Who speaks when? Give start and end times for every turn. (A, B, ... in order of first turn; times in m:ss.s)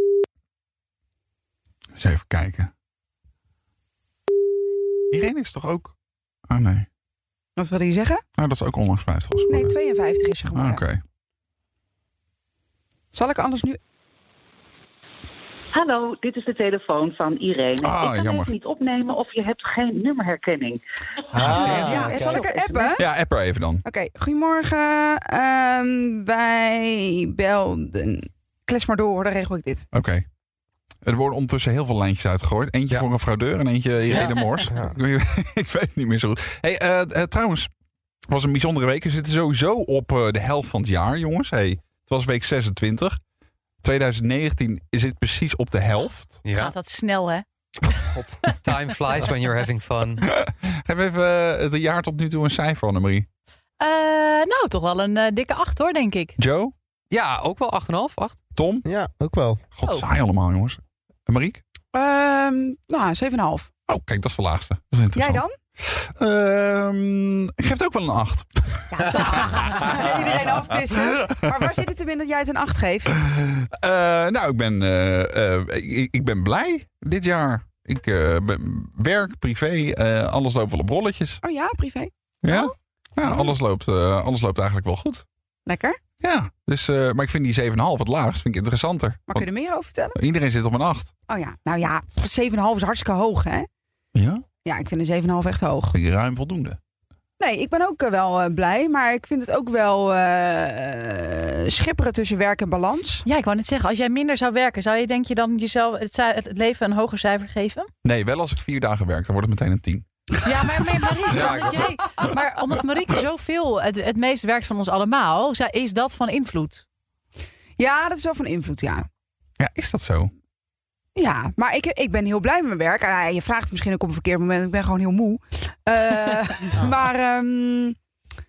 0:02.0-0:02.7 A
0:05.1-0:05.9 A
0:06.5-0:06.9 A
0:07.6-0:08.2 B
0:08.4-0:09.7 A
0:09.5-0:10.8 B
0:10.5-0:11.0 A
0:13.1-0:13.8 B
0:15.7-0:20.8 C
0:17.8-0:18.5 A
0:21.3-0:22.2 A
0:21.3-0:22.9 C
0:21.4-0:22.5 D
0:21.6-0:23.0 B
0:23.0-0:23.8 A
0:23.8-0:29.8 B
0:29.9-0:30.2 A
0:31.0-0:37.7 A
0:34.1-0:35.0 D
0:38.3-0:43.2 A
0:43.8-0:46.4 A
0:46.4-0:46.7 E
0:46.5-0:48.0 F
0:48.5-0:50.2 E
0:50.2-0:53.3 A
0:53.8-0:56.3 F
0:56.4-0:56.7 A
0:57.1-0:58.4 E
0:58.6-0:58.8 A
0:58.8-0:59.6 D
0:59.8-1:01.6 A
1:01.9-1:03.7 B
1:03.9-1:09.4 A
1:05.1-1:05.5 B
1:08.9-1:13.1 B
1:09.0-1:10.1 F
1:13.3-1:21.4 A
1:21.4-1:22.7 B
1:22.4-1:25.2 A
1:23.2-1:23.5 B
1:25.6-1:26.0 B
1:26.2-1:29.5 A
1:29.3-1:30.2 B
1:30.1-1:31.1 A
1:31.3-1:33.7 B
1:34.1-1:34.4 A
1:34.6-1:36.0 B
1:35.9-1:36.8 A
1:37.4-1:43.2 B
1:43.2-1:47.9 F
1:48.0-1:50.0 A
1:50.4-1:56.8 F
1:50.8-1:51.8 B
1:51.3-1:51.8 E
1:57.8-1:59.0 B
1:59.6-2:00.3 A
2:01.2-2:08.0 B